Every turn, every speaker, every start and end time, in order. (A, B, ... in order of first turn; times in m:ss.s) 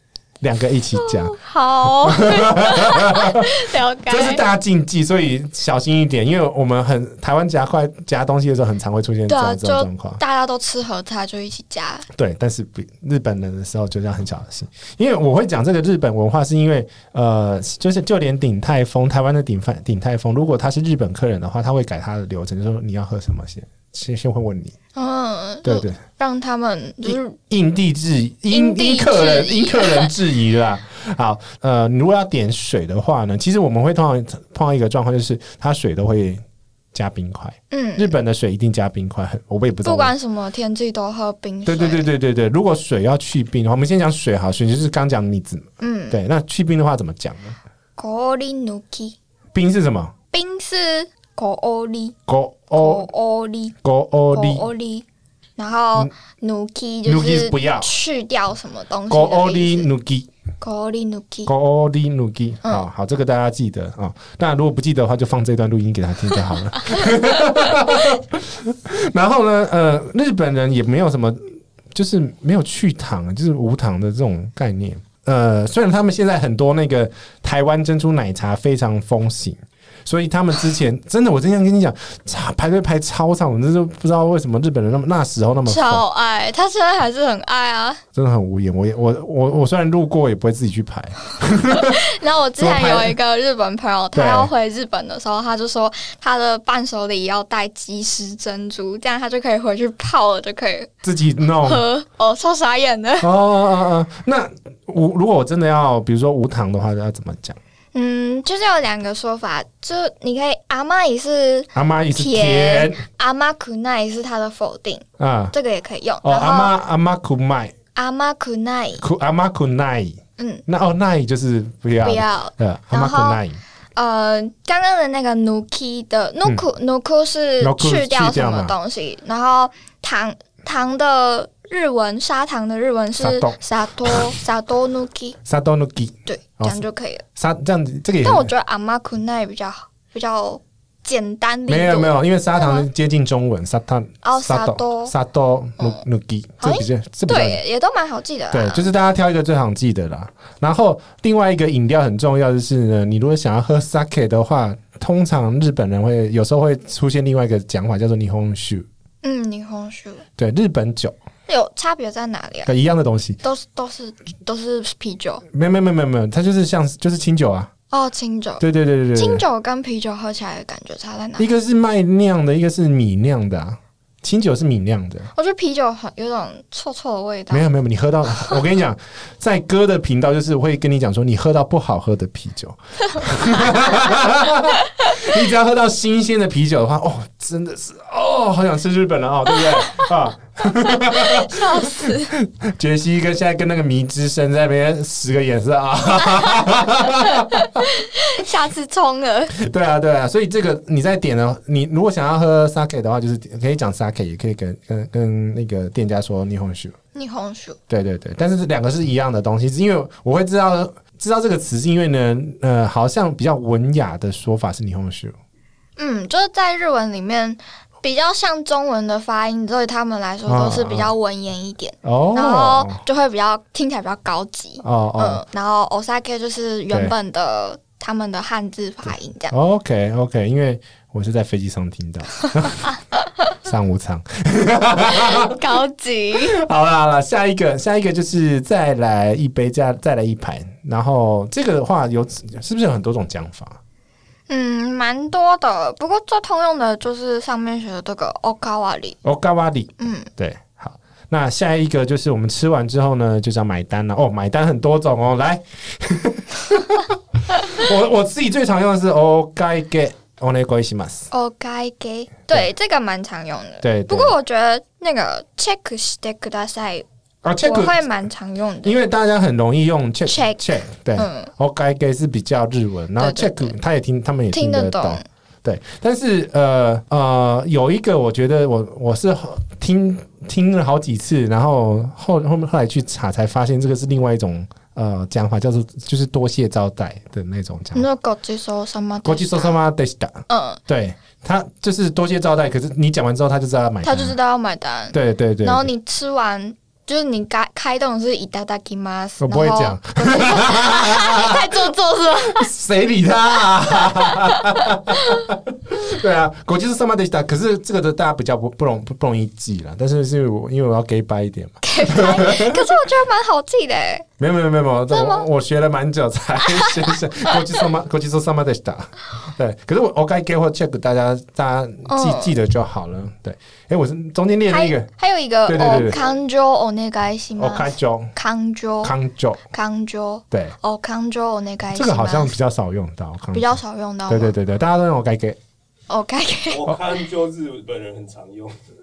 0:00.4-0:01.3 A
0:01.0-0:04.4 B
0:02.0-0:10.2 A
0:09.3-0:12.1 B
0:12.1-0:24.8 A
0:24.9-0:27.4 B
0:25.6-0:26.0 A
0:27.0-0:36.4 A
0:28.5-0:30.1 B
0:36.9-0:40.1 A
0:37.7-0:38.1 B
0:39.8-0:42.1 B
0:41.6-0:47.6 A
0:45.8-0:46.2 B
0:48.0-0:49.2 B
0:49.5-0:50.1 A
0:50.3-0:52.2 B
0:52.3-0:53.1 A
0:52.7-0:53.8 B
0:53.8-0:54.7 A
0:54.3-0:55.0 B
0:55.6-0:59.9 B
0:57.0-0:57.9 A
0:59.1-1:00.3 A
1:00.6-1:01.5 B
1:01.4-1:26.0 A
1:06.8-1:08.2 B
1:25.6-1:28.0 B
1:28.1-1:32.0 A
1:31.7-1:40.9 B
1:32.6-1:33.1 A
1:34.1-1:34.5 A
1:41.0-1:41.8 A
1:41.6-1:43.3 B
1:43.2-1:47.6 A
1:47.9-1:56.7 B
1:51.7-1:53.0 A
1:55.2-1:55.5 A
1:56.2-1:57.7 A
1:57.9-1:59.0 B
1:59.0-2:03.6 A
2:00.4-2:00.6 B
2:02.0-2:03.4 B
2:04.0-2:15.4 B
2:07.6-2:08.8 A
2:13.2-2:14.3 A
2:15.4-2:16.8 A
2:16.3-2:17.2 B
2:17.3-2:18.5 A
2:18.2-2:22.9 B
2:21.7-2:27.6 A
2:24.2-2:25.1 B
2:26.6-2:28.9 B
2:28.5-2:38.8 A
2:39.2-2:40.2 B
2:40.4-2:41.1 A
2:41.5-2:42.7 B
2:42.6-2:43.4 A
2:43.4-2:45.4 B
2:45.5-2:47.7 A
2:47.9-2:48.6 B
2:48.6-2:49.4 A
2:49.1-2:51.5 B
2:51.4-2:55.3 A
2:55.3-2:57.6 B
2:57.5-3:17.9 A
3:03.5-3:04.1 B
3:09.6-3:10.1 B
3:10.6-3:12.3 B
3:16.2-3:19.5 B
3:19.6-3:27.0 A
3:27.1-3:27.8 B
3:27.9-3:35.3 A
3:36.0-3:49.5 B
3:40.4-3:41.1 A
3:42.0-3:43.0 A
3:44.8-3:45.4 A
3:49.5-3:52.9 A
3:53.6-3:55.6 A
3:55.1-3:56.5 B
3:56.4-4:03.8 A
4:04.5-4:09.2 B
4:09.2-4:21.3 A
4:10.0-4:10.3 B
4:21.3-4:27.0 B
4:23.8-4:24.3 A
4:27.4-4:28.0 A
4:27.6-4:29.0 B
4:28.8-4:48.1 A
4:30.2-4:31.5 B
4:33.2-4:33.7 B
4:34.5-4:35.2 B
4:47.9-4:49.8 B
4:49.2-4:54.4 A
4:50.5-4:50.8 B
4:54.0-5:02.7 B
4:55.1-4:55.9 A
4:59.4-5:01.7 A
5:02.4-5:12.9 A
5:04.0-5:05.4 B
5:11.8-5:14.2 B
5:14.4-5:25.1 A
5:15.1-5:15.4 B
5:16.6-5:17.6 B
5:22.1-5:22.5 B
5:24.7-5:29.1 B
5:25.7-5:26.2 A
5:27.6-5:28.3 A
5:29.0-5:29.6 A
5:29.7-5:32.5 B
5:30.5-5:30.8 A
5:31.9-5:35.6 A
5:33.5-5:34.5 B
5:36.1-5:36.8 B
5:36.7-5:38.7 C